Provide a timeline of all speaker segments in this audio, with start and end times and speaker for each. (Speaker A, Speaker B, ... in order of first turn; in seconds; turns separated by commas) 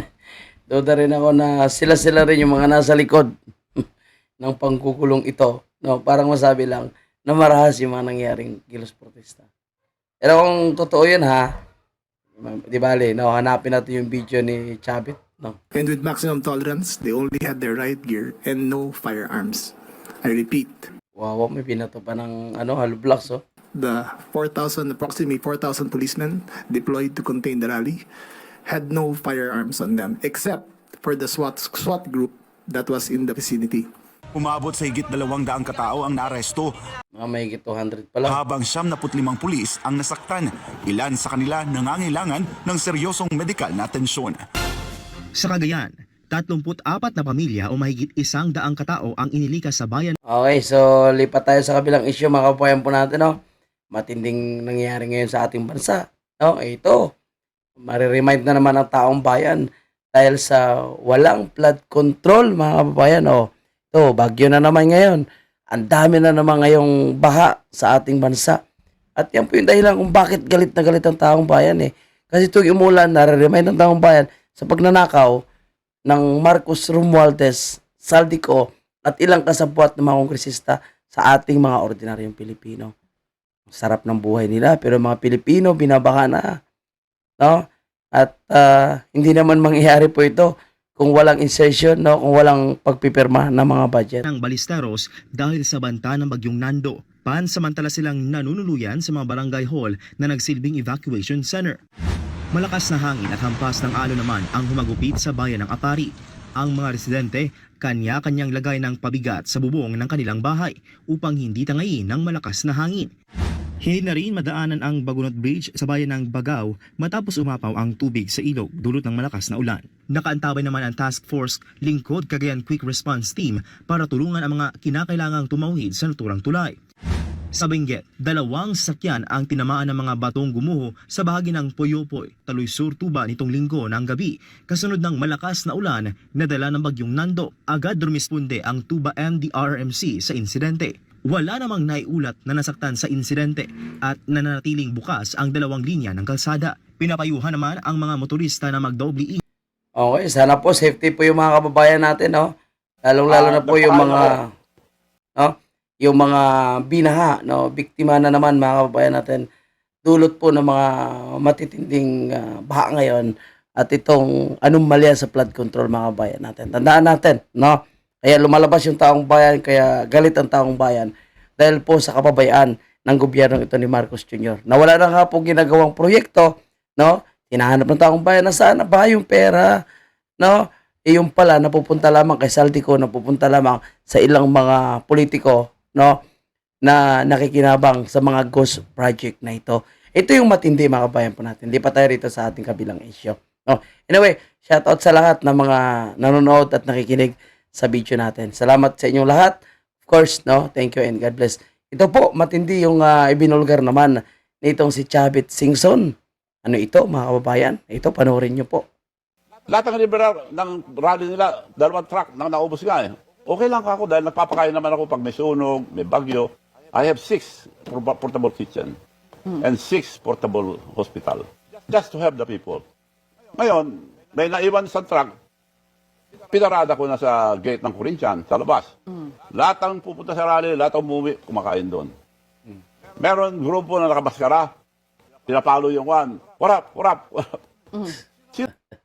Speaker A: 0.7-3.8, Speaker A: 4.4-9.4, Speaker A: 10.2-11.5, Speaker A: 12.4-15.6, Speaker B: 15.7-20.9, Speaker A: 21.2-23.4, Speaker B: 23.7-28.0, Speaker B: 28.7-33.9, Speaker C: 34.3-36.7, Speaker A: 37.2-38.4, Speaker C: 38.2-44.4, Speaker D: 45.4-50.1, Speaker A: 50.3-53.3, Speaker A: 53.9-57.1, Speaker A: 57.8-68.6, Speaker A: 69.2-75.4, Speaker A: 76.1-82.9, Speaker A: 83.7-86.5, Speaker A: 88.2-94.2, Speaker D: 94.2-101.8, Speaker D: 102.5-113.1, Speaker D: 113.8-126.8, Speaker D: 127.5-149.4, Speaker A: 150.0-152.5, Speaker A: 153.1-154.4, Speaker E: 153.3-154.3, Speaker A: 155.4-159.4, Speaker A: 160.1-179.8, Speaker A: 180.4-186.1, Speaker A: 186.8-206.1, Speaker A: 206.6-208.8, Speaker E: 209.7-218.9, Speaker E: 219.6-222.8, Speaker E: 223.6-225.3, Speaker E: 226.5-228.9, Speaker E: 229.5-232.1, Speaker E: 233.2-234.7, Speaker E: 235.5-237.6